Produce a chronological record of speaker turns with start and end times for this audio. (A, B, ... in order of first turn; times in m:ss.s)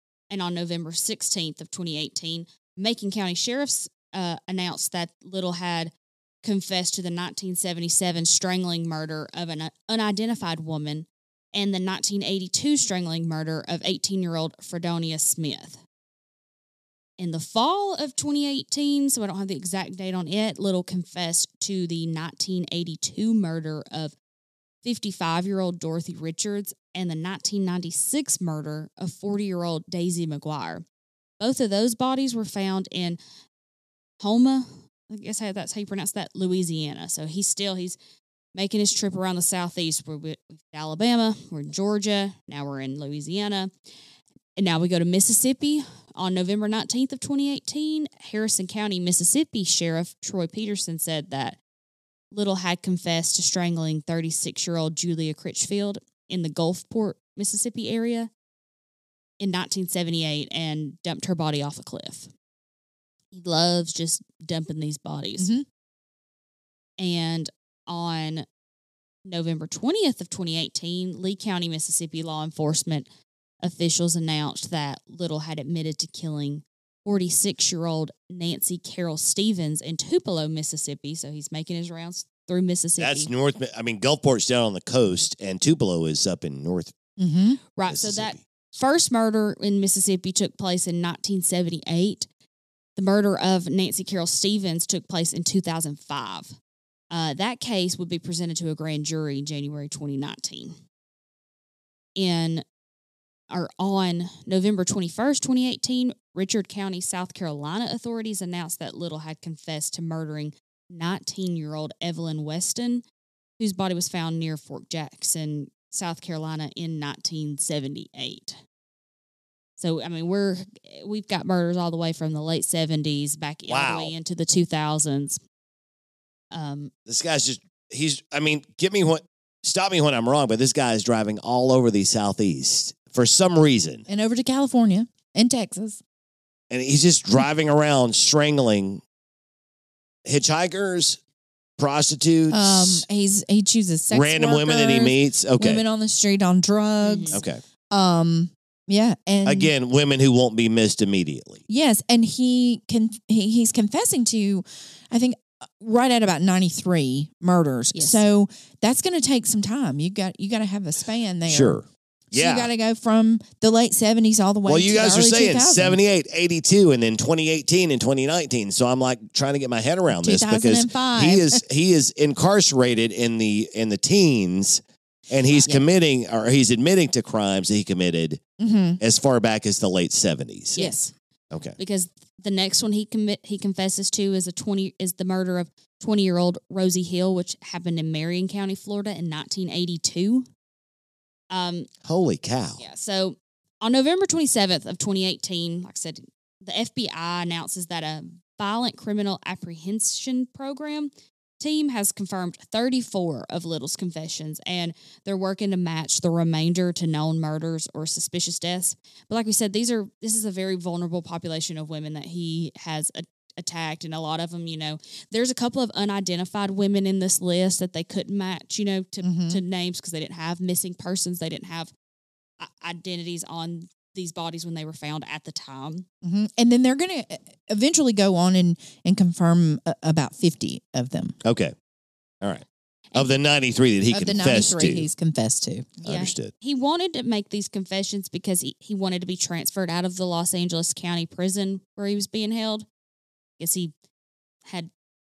0:00.3-0:05.9 A
0:06.4-0:15.8 A
0:17.2-0:24.1 A
0:24.8-0:30.8 A
0:31.4-0:33.2 A
0:34.2-0:38.0 A
0:38.5-0:43.7 A
0:44.6-0:51.6 A
0:52.3-0:58.3 A
0:59.4-1:02.3 A
1:03.3-1:05.5 A
1:05.4-1:05.6 B
1:07.0-1:08.4 A
1:09.2-1:13.1 A
1:13.6-1:23.3 A
1:23.0-1:26.9 C
1:27.2-1:27.6 B
1:27.8-1:32.3 A
1:27.9-1:28.4 C
1:33.0-1:36.6 A
1:37.1-1:40.8 A
1:42.2-1:42.6 A
1:43.5-1:53.0 A
1:53.6-1:58.6 A
1:59.8-2:05.4 A
2:03.7-2:04.1 C
2:06.5-2:06.9 A
2:07.0-2:14.0 C
2:14.1-2:16.0 B
2:16.7-2:19.0 C
2:20.2-2:21.2 C
2:21.8-2:23.0 C
2:22.5-2:27.4 B
2:24.1-2:25.8 C
2:27.0-2:27.4 A
2:27.3-2:27.6 C
2:27.9-2:29.7 B
2:29.4-2:31.6 C
2:31.7-2:41.8 B
2:37.9-2:38.2 A
2:41.5-2:42.7 C
2:42.3-2:46.0 B
2:44.6-2:58.5 C
2:50.1-2:51.6 B
2:58.6-2:59.0 B
2:59.0-3:00.8 C
3:00.8-3:01.1 A
3:00.8-3:01.0 B
3:01.5-3:01.8 C
3:01.8-3:10.4 A
3:11.5-3:11.9 A
3:12.0-3:12.8 C
3:12.8-3:41.9 A
3:39.2-3:39.6 B
3:42.6-3:46.0 A
3:46.2-3:51.4 B
3:51.4-3:51.7 C
3:53.1-3:55.1 C
3:54.1-3:56.0 B
3:56.0-3:56.5 C
3:56.0-4:02.8 A
4:03.6-4:03.9 A
4:04.6-4:04.9 A